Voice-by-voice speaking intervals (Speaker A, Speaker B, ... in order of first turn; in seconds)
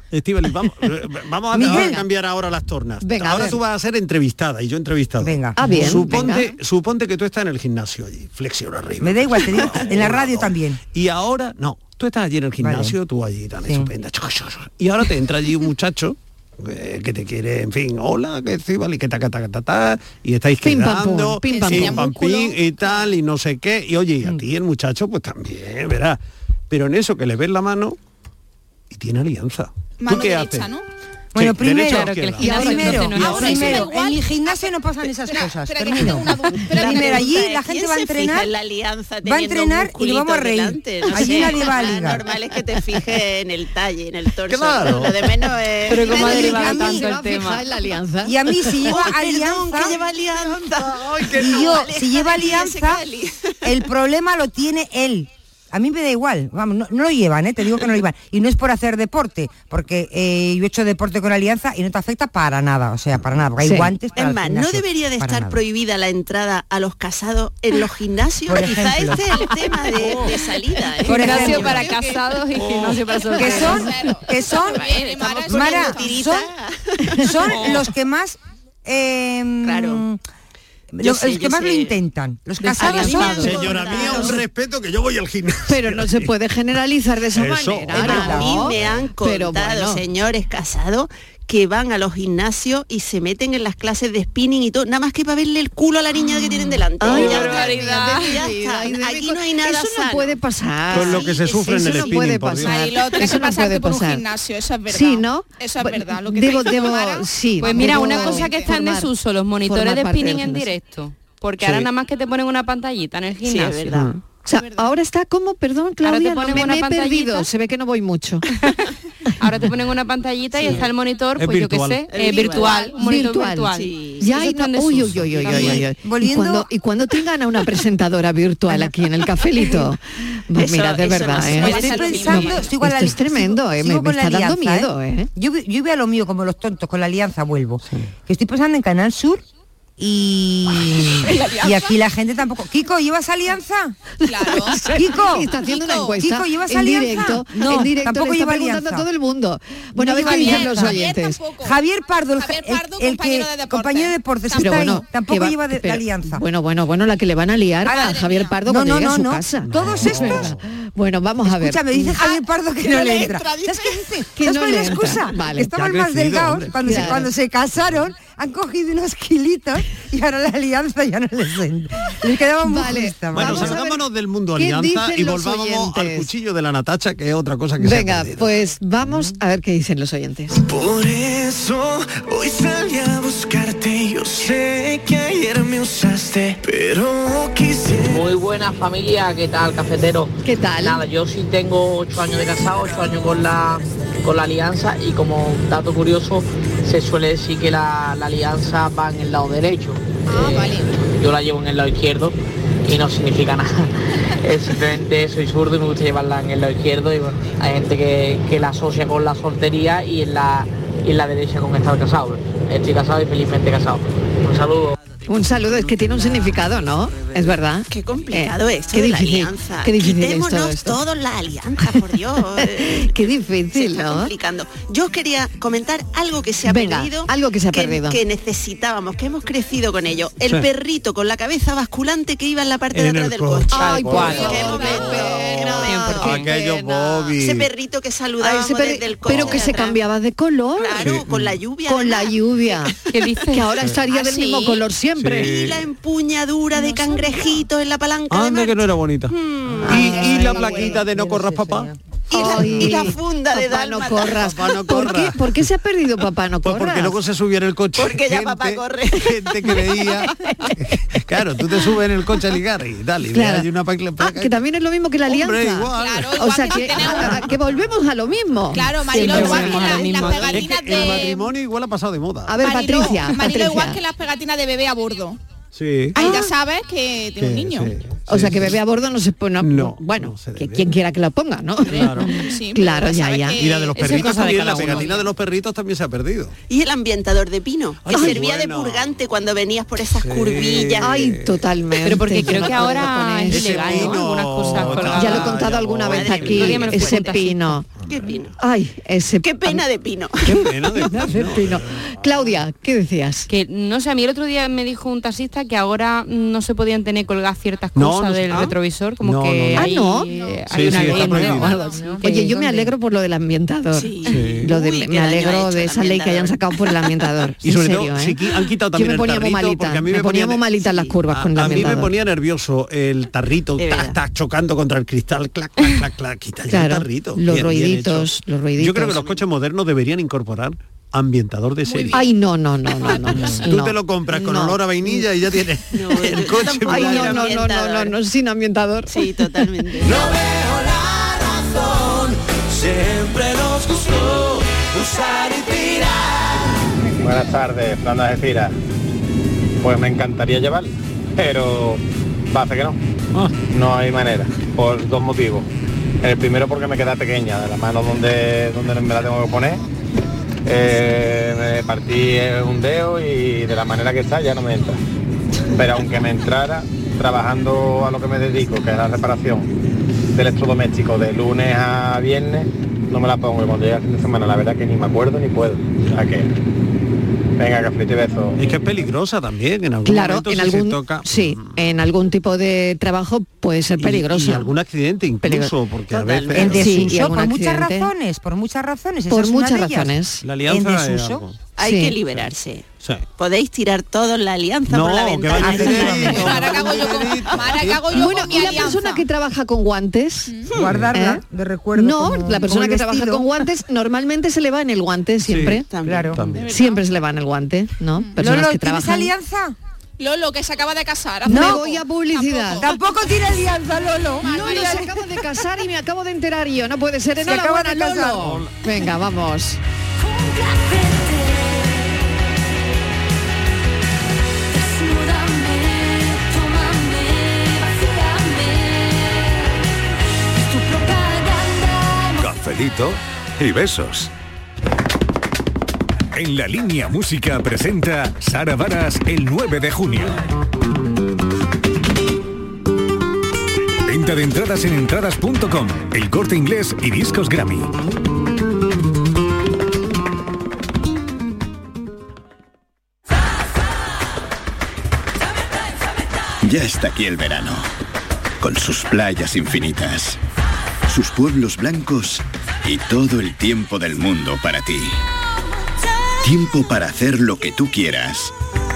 Speaker A: 0.1-28.0, 28.9-30.7, 31.4-33.9, 44.5-45.2, 50.0-51.9, 72.6-73.0, 83.4-86.3, 87.3-89.0, 100.9-102.8, 121.4-122.1, 125.0-125.6, 159.6-160.6, 165.7-167.3, 173.3-178.5, 232.9-237.7, 239.3-239.7, 241.0-241.6, 245.2-245.9, 248.3-251.9, 252.6-252.9, 254.2-255.5, 256.6-264.6, 265.3-267.4, 269.4-269.6, 270.4-272.6, 275.7-276.3, 277.4-278.8, 279.6-280.9, 281.9-282.3, 283.6-286.5, 288.0-289.2, 290.2-291.6, 293.5-296.9, 300.4-302.6, 307.9-309.9, 310.7-311.9, 314.3-314.7, 317.6-332.2, 333.3-337.6, 378.6-381.8, 384.0-387.3, 390.4-391.6, 393.0-393.3, 394.9-398.9, 400.8-401.1, 405.4-406.7, 418.4-418.7
Speaker B: 1.5-2.0, 5.2-6.2, 9.0-10.8, 12.6-13.0, 31.3-38.5, 39.3-42.2, 46.2-47.1, 48.2-50.0, 51.4-53.0, 53.6-65.6, 68.5-69.2, 71.1-71.8, 73.4-76.5, 77.2-80.2, 80.9-83.7, 88.0-88.6, 125.5-126.7, 131.6-139.4, 140.0-143.9, 144.9-145.5, 146.2-149.1, 150.0-151.0, 151.6-156.4, 158.7-160.6, 161.4-173.8, 249.9-252.0, 386.6-391.4, 395.6-396.3, 400.7-403.5, 406.1-406.4, 408.4-409.8, 411.5-411.8, 412.8-415.1, 417.4-418.6
Speaker C: 1.6-2.0, 3.0-3.6, 5.6-6.5, 20.6-22.1, 32.4-33.1, 41.2-41.5, 46.0-48.3, 63.6-63.9, 82.7-84.3, 85.7-90.0, 97.0-104.2, 104.9-109.1, 109.6-110.7, 114.5-118.5, 122.9-135.3, 144.5-151.4, 154.6-162.2, 164.4-165.7, 166.8-167.3, 172.7-174.1, 174.6-176.3, 177.8-180.6, 190.4-191.1, 215.3-221.0, 222.6-224.3, 226.7-228.2, 233.7-237.3, 238.4-241.1, 241.9-243.0, 243.5-245.5, 249.8-250.7, 252.3-257.2, 263.3-263.7, 264.2-270.1, 272.5-274.0, 276.1-276.5, 278.3-283.6, 288.1-288.4, 291.0-294.2, 294.9-297.9, 298.6-299.8, 301.0-303.5, 309.8-310.3, 310.8-311.6, 312.2-318.4, 318.9-322.1, 326.7-329.2, 332.1-335.2, 336.9-339.2, 380.1-384.7, 385.4-385.7, 386.5-388.1, 389.3-390.4, 391.8-392.1, 398.1-400.5, 401.1-401.4, 402.0-405.9, 406.7-409.3, 411.4-412.9, 414.4-419.8
Speaker D: 21.5-23.1, 30.0-30.9, 33.3-34.7, 35.2-37.3, 71.4-72.4, 73.3-76.3, 97.2-98.3, 102.6-108.8, 114.5-114.9, 131.6-132.5, 141.2-142.0, 144.2-146.2, 150.2-151.8, 152.4-154.9, 157.9-158.6, 162.2-164.1, 200.3-200.9, 249.9-251.0, 265.9-267.5, 268.7-271.5, 272.6-275.4, 276.1-277.9, 282.3-284.2, 284.8-285.2, 311.6-312.1, 331.8-332.3, 396.3-399.2, 406.6-407.0, 410.2-412.9, 414.4-415.1
Speaker E: 31.8-33.8, 45.9-47.6, 71.1-73.9, 107.6-114.0, 116.0-117.5, 119.4-125.8, 233.8-234.8, 235.8-236.3, 243.1-243.7, 269.2-270.7, 284.0-285.1, 292.0-295.6, 296.5-297.8, 303.5-312.2
Speaker F: 36.7-46.6, 48.9-53.6, 64.2-71.9, 74.6-77.7, 79.6-80.0, 81.0-82.0, 82.8-84.4, 87.9-100.4, 100.9-101.8, 113.4-114.1, 120.6-120.9, 122.1-123.0, 123.7-124.3, 130.6-132.7, 217.9-236.5, 237.4-240.1, 240.8-243.1, 244.1-244.8, 245.4-249.9, 252.3-254.5, 258.0-260.4, 286.7-291.2, 296.1-297.3, 298.1-298.5, 299.4-300.7, 313.9-317.1, 320.8-321.8, 323.8-324.2, 335.9-338.2, 339.1-340.3, 386.1-386.7, 391.8-392.9, 393.4-397.0, 405.9-406.7
Speaker G: 180.7-188.2, 341.6-342.2, 343.2-344.0, 345.0-346.0
Speaker H: 188.1-215.0
Speaker I: 347.2-348.7, 349.8-352.0, 352.5-353.0, 353.7-355.6, 356.2-359.8, 360.7-364.9, 365.8-369.6, 370.4-376.4, 377.6-378.6
Speaker J: 432.4-434.3, 436.4-440.4, 444.1-447.9
Speaker K: 456.6-457.9, 458.6-460.4, 461.1-465.2, 466.4-468.5